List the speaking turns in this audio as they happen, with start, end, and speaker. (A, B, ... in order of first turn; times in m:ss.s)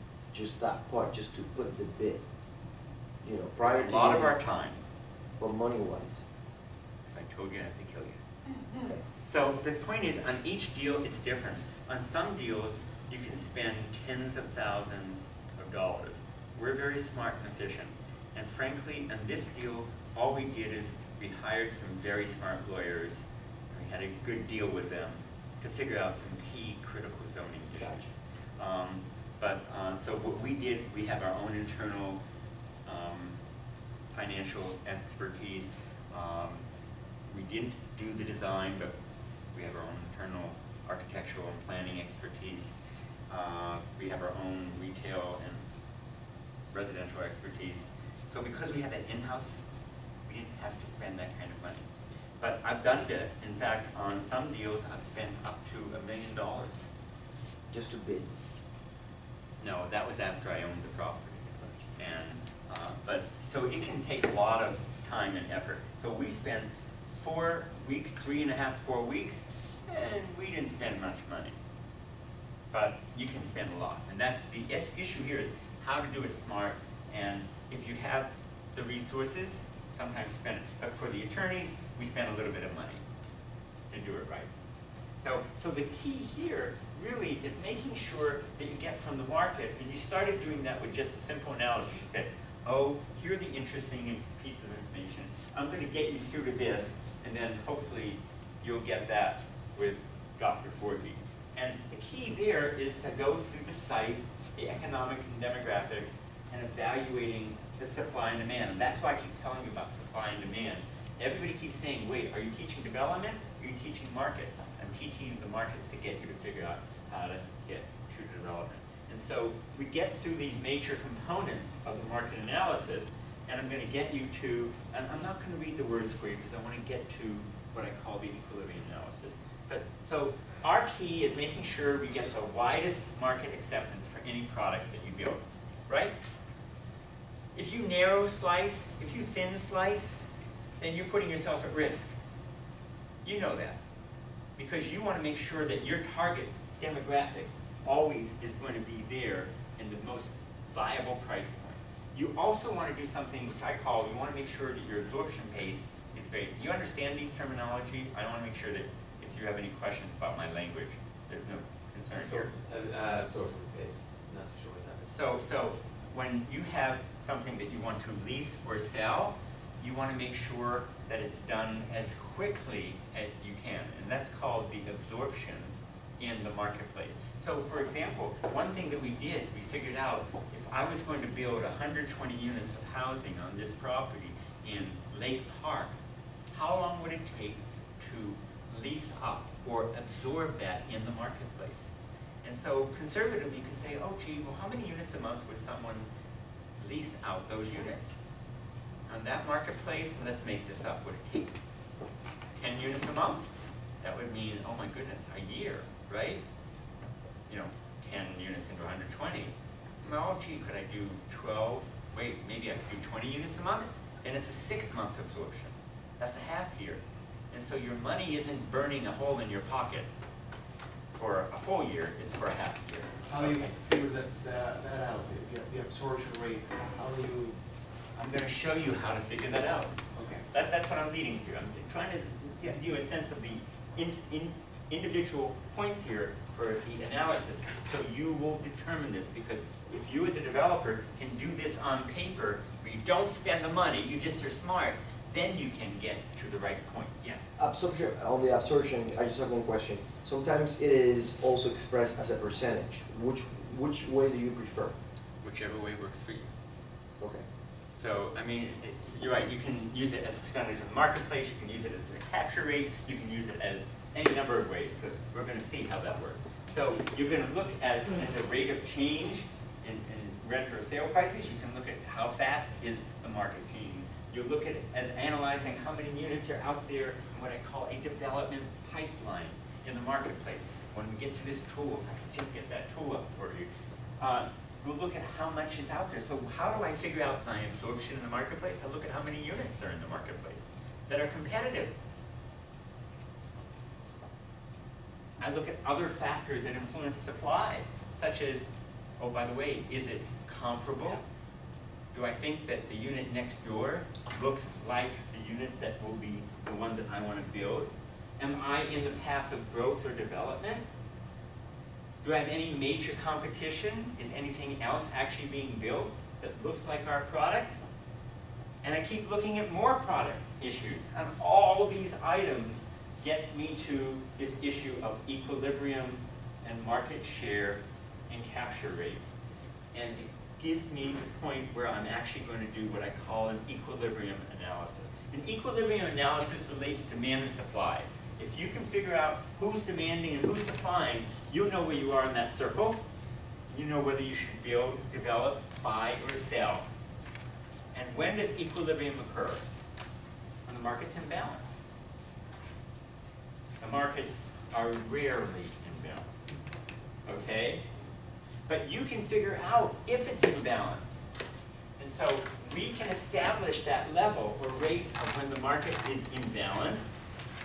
0:00.3-0:02.2 A
0:03.2-0:04.3 A
0:03.6-0:04.8 B
0:05.4-0:06.2 A
0:07.1-0:08.2 B
0:08.8-0:09.0 A
0:09.2-0:32.2 B
0:32.9-0:33.4 B
0:34.1-0:36.6 B
0:37.3-0:38.9 B
0:39.5-0:42.8 B
0:43.3-0:45.6 B
0:46.7-0:49.6 B
0:50.3-0:51.9 B
0:52.4-0:56.8 B
0:57.7-0:58.3 A
0:59.6-1:11.6 B
1:12.7-1:23.0 B
1:23.9-1:24.5 B
1:25.2-2:16.2 B
2:17.6-2:20.2 B
2:20.8-2:22.2 B
2:23.2-2:23.8 B
2:24.6-2:42.5 B
2:42.2-2:45.1 C
2:45.1-3:06.0 B
3:06.5-3:11.9 B
3:12.4-3:16.1 B
3:16.8-3:18.2 B
3:19.1-3:21.6 B
3:22.6-3:23.5 B
3:24.0-3:26.4 B
3:27.5-3:40.1 B
3:41.1-3:43.7 B
3:43.3-3:47.6 D
3:48.2-3:50.0 B
3:50.2-3:50.4 D
3:50.5-4:07.5 B
4:07.6-4:14.9 A
4:15.4-4:16.5 B
4:17.2-4:17.4 A
4:17.9-4:43.7 B
4:44.2-4:52.0 B
4:55.4-4:58.7 B
4:59.2-5:01.2 B
5:02.1-5:10.9 B
5:12.2-5:17.7 B
5:18.8-5:29.3 B
5:29.9-5:43.0 B
5:43.7-5:46.8 B
5:47.9-5:49.6 B
5:50.7-5:51.8 B
5:53.8-5:56.5 B
5:57.3-5:57.9 B
5:58.7-6:01.2 B
6:02.0-6:07.1 B